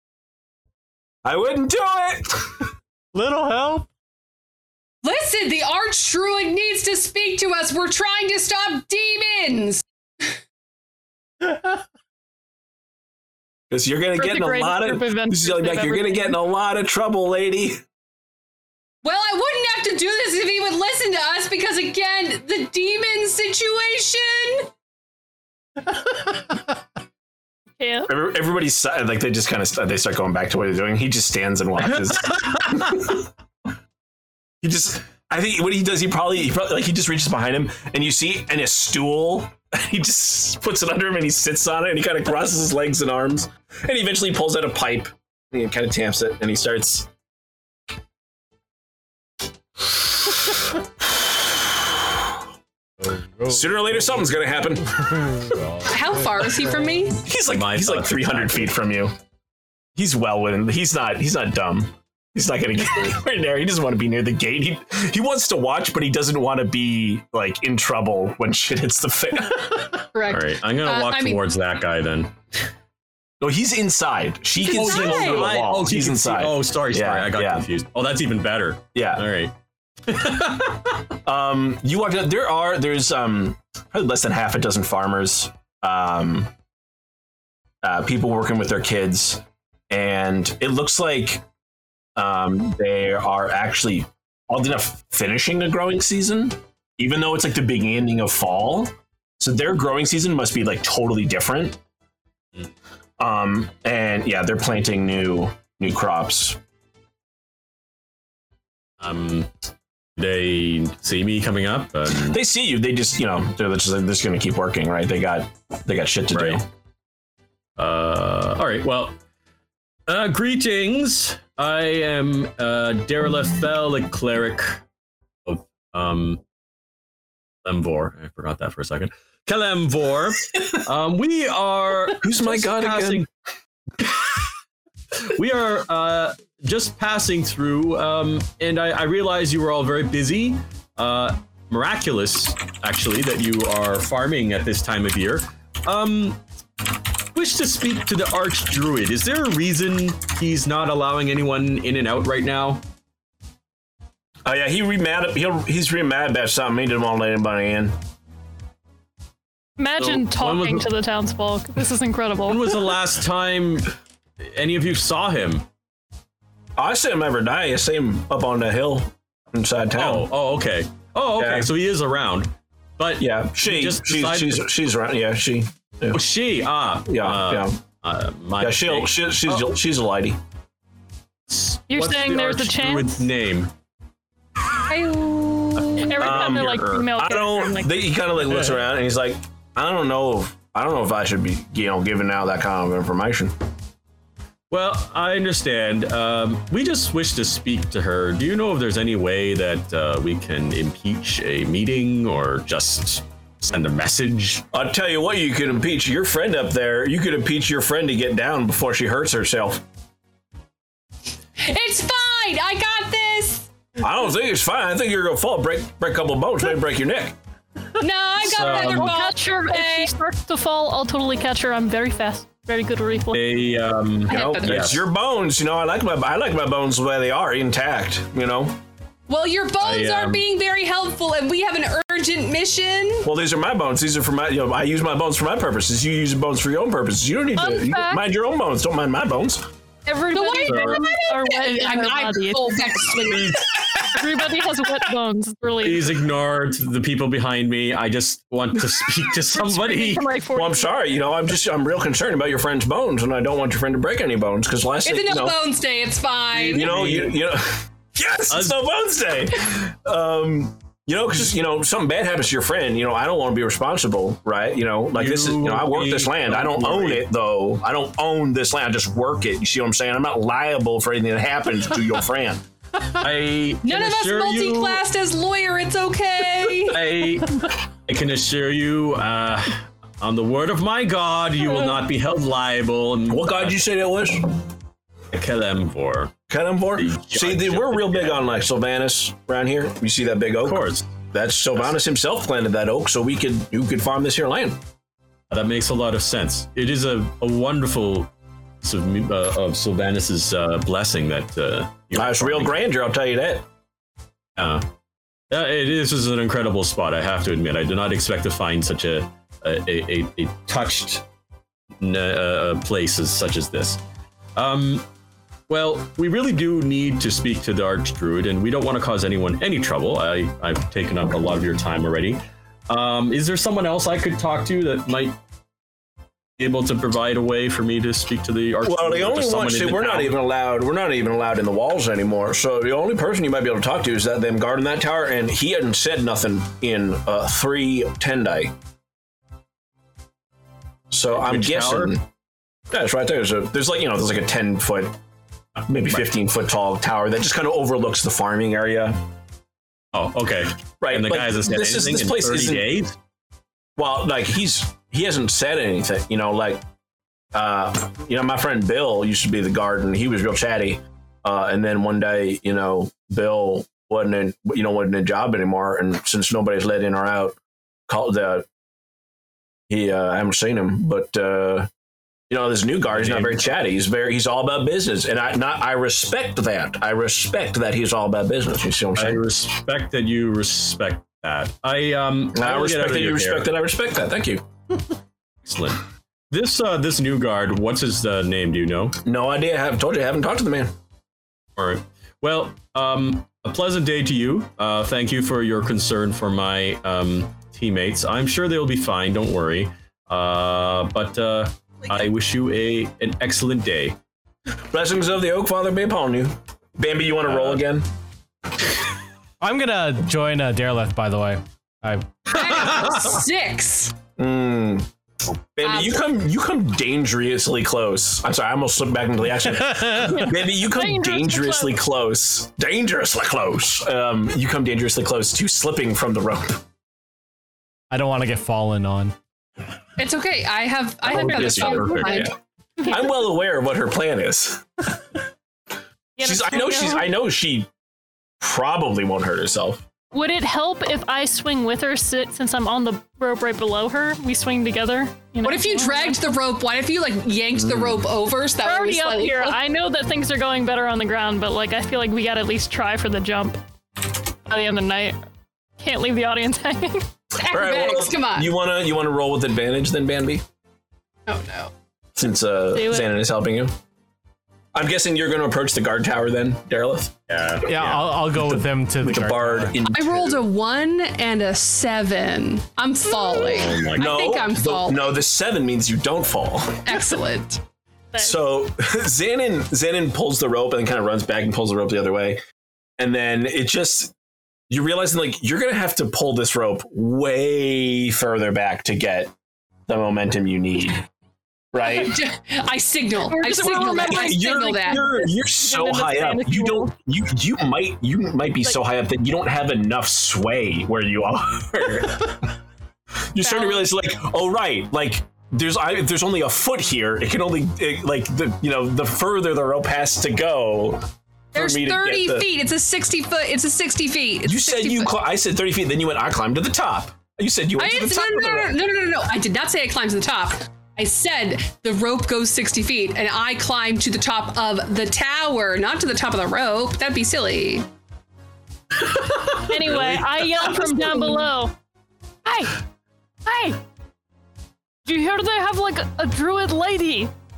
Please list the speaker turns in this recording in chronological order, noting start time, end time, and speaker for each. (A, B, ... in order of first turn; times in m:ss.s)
0:01.2-0:02.7 A
0:03.1-0:03.9 B
0:05.0-0:10.3 C
0:11.5-0:11.7 B
0:13.7-0:17.8 A
0:14.2-0:16.4 D
0:19.0-0:24.7 C
0:27.8-0:28.1 D
0:28.1-0:33.3 A
0:34.6-0:47.1 A
0:53.0-0:54.3 B
0:53.5-0:55.4 A
0:54.9-0:57.0 B
0:55.9-0:57.2 C
0:57.2-0:59.2 A
0:57.4-0:58.7 E
1:00.0-1:10.0 A
1:10.1-1:11.4 C
1:10.3-1:12.4 E
1:13.4-1:17.7 A
1:14.6-1:15.5 C
1:14.7-1:19.5 E
1:19.0-1:19.3 A
1:20.1-1:21.1 E
1:21.2-1:26.5 A
1:27.8-1:31.4 A
1:32.2-1:41.8 A
1:43.2-1:46.6 A
1:49.0-1:49.5 E
1:50.2-1:52.4 E
1:52.2-1:56.7 A
1:56.3-1:56.6 E
1:57.8-1:59.2 E
2:00.1-2:04.8 E
2:05.5-2:06.4 E
2:07.6-2:13.3 E
2:12.2-2:13.2 A
2:14.0-2:14.3 E
2:15.2-2:26.4 E
2:27.3-2:32.8 E
2:34.5-2:38.0 A
2:39.8-2:42.9 D
2:40.0-2:40.9 E
2:42.5-2:45.7 E
2:46.8-2:50.3 A
2:50.0-2:54.6 E
2:51.4-2:51.7 A
2:53.2-2:56.2 A
2:56.1-2:59.7 E
2:57.1-2:57.8 A
2:58.6-3:00.4 A
3:01.5-3:03.7 E
3:01.9-3:03.3 D
3:04.9-3:06.4 C
3:06.0-3:08.0 D
3:06.2-3:13.5 A
3:14.7-3:24.6 E
3:24.7-3:29.8 A
3:31.6-3:33.7 C
3:34.0-3:37.4 A
3:38.0-3:40.1 C
3:38.4-3:39.1 E
3:38.6-3:43.5 D
3:43.3-3:45.0 E
3:44.3-3:48.8 A
3:44.3-3:45.0 C
3:49.3-3:53.3 C
3:49.8-3:50.4 E
3:53.2-3:59.7 A
3:57.6-3:58.2 D
4:00.1-4:03.2 D
4:00.3-4:03.6 C
4:00.7-4:01.0 E
4:03.2-4:04.2 E
4:04.0-4:06.2 D
4:05.8-4:10.2 E
4:09.4-4:11.2 D
4:10.6-4:15.6 A
4:15.0-4:16.9 C
4:16.5-4:32.6 A
4:16.6-4:17.4 E
4:18.5-4:18.8 E
4:25.1-4:27.3 E
4:33.0-4:35.0 E
4:33.8-4:37.1 C
4:36.9-4:43.8 E
4:43.3-4:44.6 A
4:45.3-4:46.3 E
4:46.5-4:54.8 A
4:47.0-4:48.6 E
4:50.6-4:51.1 E
4:55.5-5:02.8 E
5:02.1-5:03.7 A
5:04.6-5:04.9 E
5:05.5-5:11.2 E
5:12.0-5:14.0 E
5:14.6-5:15.1 E
5:15.7-5:25.4 E
5:26.6-5:30.3 E
5:28.8-5:38.8 A
5:41.1-5:42.3 A
5:41.3-5:42.1 E
5:42.9-5:45.2 A
5:45.8-5:46.2 E
5:45.9-5:49.2 A
5:50.1-5:53.2 E
5:51.0-5:52.9 A
5:54.0-5:56.8 A
5:57.5-6:07.6 A
6:08.1-6:08.7 A
6:09.9-6:11.9 A
6:12.5-6:19.4 A
6:13.1-6:13.7 E
6:19.2-6:23.7 E
6:22.5-6:24.7 A
6:25.6-6:29.2 E
6:29.2-6:30.9 A
6:31.8-6:44.2 E
6:44.9-6:48.1 A
6:49.6-6:52.9 B
6:52.5-6:54.2 C
6:54.4-6:55.1 A
6:55.8-7:06.8 A
6:55.8-6:56.3 C
6:59.8-7:00.5 B
7:00.2-7:01.9 D
7:08.1-7:09.4 B
7:10.2-7:12.5 C
7:11.2-7:12.5 E
7:11.3-7:12.5 A
7:11.8-7:12.5 D
7:13.0-7:13.3 D
7:13.1-7:15.1 A
7:16.4-7:17.3 D
7:16.4-7:17.9 A
7:18.6-7:20.0 A
7:20.3-7:26.4 D
7:25.6-7:29.8 C
7:27.8-7:28.3 A
7:28.8-7:33.8 D
7:34.7-7:35.4 D
7:36.0-7:37.3 D
7:37.5-7:38.7 C
7:37.7-7:40.6 A
7:41.5-7:41.9 C
7:42.4-7:43.9 A
7:42.9-7:43.3 D
7:45.0-7:47.4 A
7:47.5-7:48.4 E
7:47.9-7:50.0 B
7:48.5-7:50.6 A
7:50.1-7:55.3 C
7:53.7-7:54.3 E
7:54.1-7:57.1 A
7:57.0-7:57.8 C
7:58.3-7:58.6 D
7:58.4-8:02.6 A
8:03.2-8:04.3 A
8:04.9-8:09.5 A
8:10.1-8:11.3 A
8:11.9-8:12.4 A
8:12.0-8:15.5 C
8:13.5-8:17.1 D
8:14.2-8:22.7 A
8:23.5-8:32.7 A
8:31.7-8:35.3 C
8:34.7-8:39.0 A
8:38.0-8:48.1 C
8:49.1-8:51.4 E
8:49.8-8:51.9 D
8:52.6-8:53.0 D
8:53.7-8:54.0 D
8:55.2-8:57.5 D